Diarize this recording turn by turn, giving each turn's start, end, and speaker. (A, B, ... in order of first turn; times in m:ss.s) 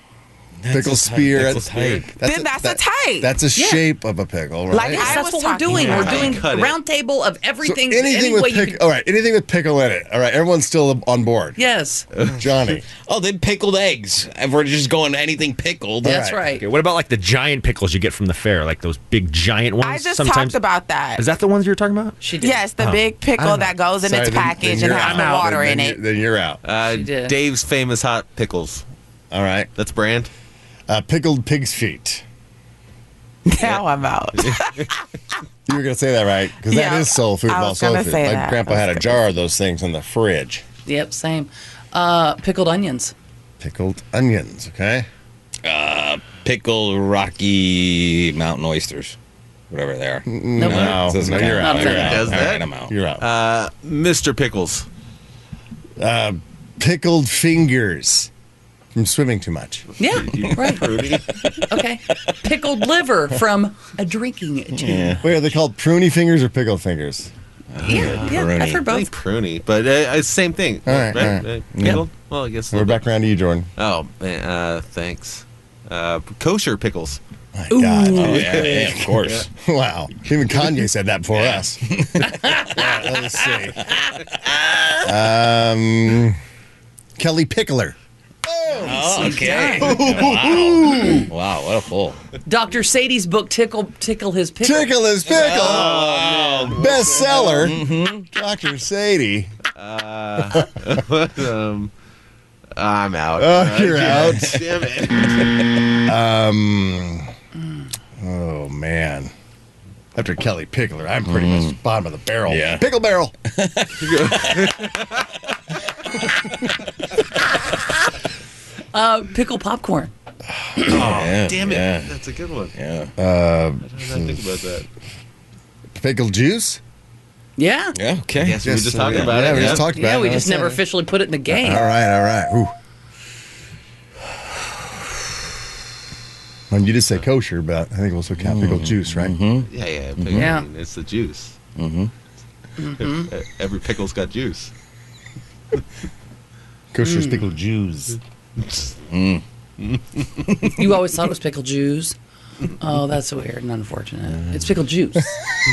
0:00.6-0:02.1 A
0:00.7-0:05.2 B
0:01.4-0:02.1 C
0:02.2-0:03.3 D
0:03.5-0:03.8 E
0:04.7-0:06.4 D
0:04.9-0:08.8 E
0:05.6-0:06.8 C
0:07.6-0:11.6 B
0:11.6-0:12.0 E
0:12.3-0:12.8 B
0:13.1-0:16.3 A
0:16.0-0:16.4 B
0:16.0-0:16.6 E
0:16.6-0:20.6 F
0:19.8-0:21.2 D
0:21.2-0:23.7 F
0:22.2-0:22.6 E
0:22.4-0:26.0 D
0:24.0-0:26.6 B
0:24.6-0:25.6 F
0:26.6-0:28.8 C
0:26.9-0:27.3 E
0:29.3-0:29.7 B
0:29.8-0:30.3 C
0:30.9-0:32.2 B
0:33.4-0:34.9 D
0:35.6-0:40.6 B
0:36.7-0:39.2 D
0:40.8-0:43.1 E
0:43.6-0:45.1 B
0:45.6-0:49.2 A
0:49.7-0:52.9 A
0:50.2-0:53.2 B
0:50.6-0:52.1 E
0:51.6-0:54.8 C
0:56.0-0:58.3 B
0:58.9-0:59.9 B
1:00.0-1:00.9 E
1:00.0-1:01.4 C
1:01.7-1:05.2 E
1:04.7-1:05.2 A
1:05.2-1:07.3 B
1:07.7-1:08.8 A
1:07.8-1:13.1 C
1:07.9-1:09.1 E
1:10.8-1:11.5 B
1:11.7-1:12.0 A
1:12.7-1:13.7 B
1:13.8-1:17.2 C
1:17.5-1:22.0 B
1:17.7-1:18.6 E
1:18.1-1:19.5 A
1:21.3-1:22.8 A
1:22.4-1:22.6 E
1:22.6-1:23.9 B
1:23.8-1:25.0 A
1:25.0-1:26.4 B
1:27.2-1:31.3 B
1:28.8-1:32.2 A
1:29.0-1:30.1 E
1:32.4-1:34.9 E
1:34.6-1:36.1 B
1:35.3-1:38.3 A
1:35.3-1:37.6 C
1:36.7-1:39.5 B
1:39.8-1:41.9 C
1:42.8-1:45.4 C
1:43.4-1:44.6 B
1:46.0-1:47.3 B
1:48.2-1:49.3 B
1:50.1-1:53.3 B
1:51.3-1:51.8 A
1:52.5-1:52.8 A
1:53.5-1:54.6 A
1:54.0-1:55.3 C
1:58.9-2:00.1 E
2:00.9-2:02.7 C
2:00.9-2:02.1 A
2:02.8-2:03.1 A
2:03.2-2:04.5 B
2:03.8-2:04.8 C
2:05.9-2:06.8 B
2:07.6-2:08.0 E
2:07.9-2:09.8 A
2:08.4-2:10.0 C
2:08.6-2:10.8 B
2:09.8-2:11.9 E
2:11.5-2:12.7 B
2:16.7-2:19.4 B
2:18.4-2:20.5 A
2:19.6-2:21.6 C
2:20.3-2:20.6 E
2:21.8-2:22.1 A
2:22.8-2:23.3 E
2:23.0-2:24.7 C
2:26.9-2:28.2 B
2:27.0-2:27.4 E
2:29.1-2:29.4 A
2:30.7-2:32.2 E
2:32.8-2:35.3 E